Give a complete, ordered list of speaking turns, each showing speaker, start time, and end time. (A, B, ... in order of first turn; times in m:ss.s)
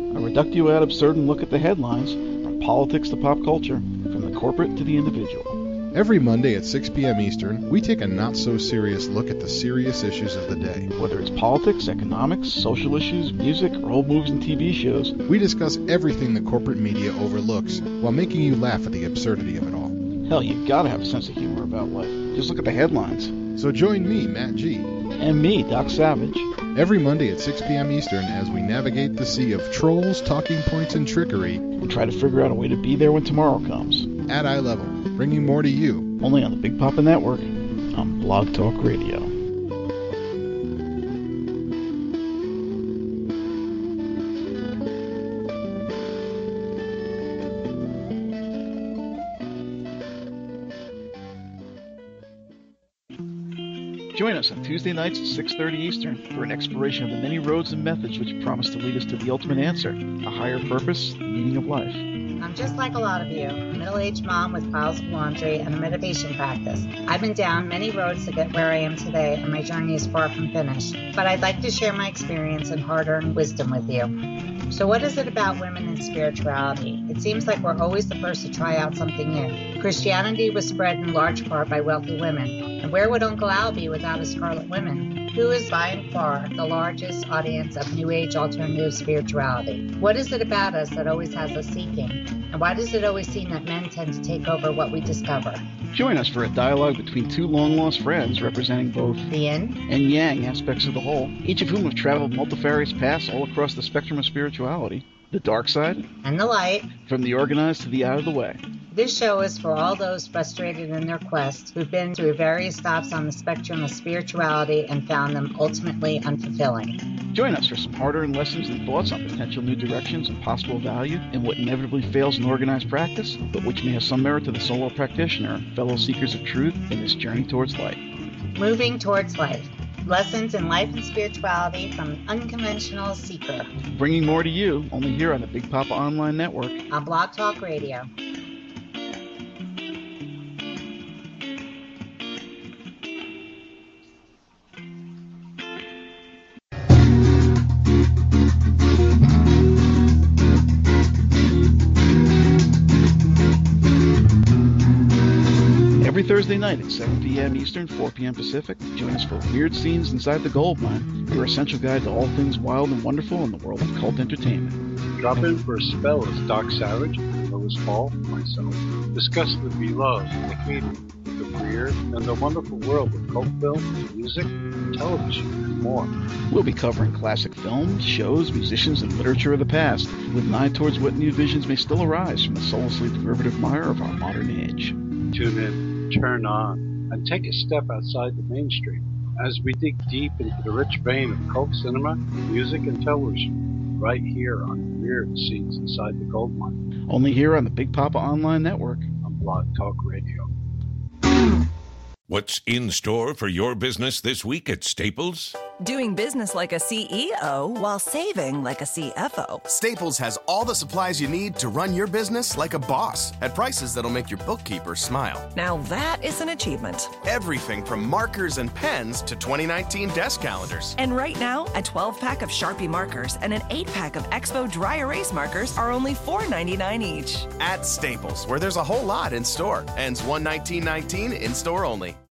0:00.1-0:05.6 A
0:05.9-0:10.9 B
0:11.0-0:15.1 A
0:15.3-0:20.0 B
0:20.3-0:23.4 A
0:23.5-0:24.9 B
0:25.2-0:26.5 A
0:26.7-0:31.6 B
0:31.8-0:34.1 A
0:34.3-0:36.1 B
0:36.2-0:39.3 A
0:54.1-1:02.0 A
1:02.4-1:14.1 C
1:14.7-1:35.6 C
1:35.9-1:39.2 A
1:39.3-1:39.8 C
1:39.9-1:46.0 A
1:46.2-1:46.9 C
1:47.0-1:48.6 A
1:48.9-1:57.0 C
1:57.3-2:08.0 A
2:08.6-2:13.7 C
2:13.9-2:16.8 A
2:16.9-2:18.1 C
2:36.0-2:44.8 A
2:45.1-2:56.1 D
2:56.5-3:05.0 A
3:05.3-3:16.8 D
3:17.1-3:19.1 A
3:19.2-3:20.5 D
3:22.3-3:25.6 E
3:25.8-3:29.6 F
3:29.7-3:35.5 G
3:35.5-3:37.1 F
3:37.2-3:40.9 G
3:41.0-3:47.5 F
3:47.6-3:52.2 G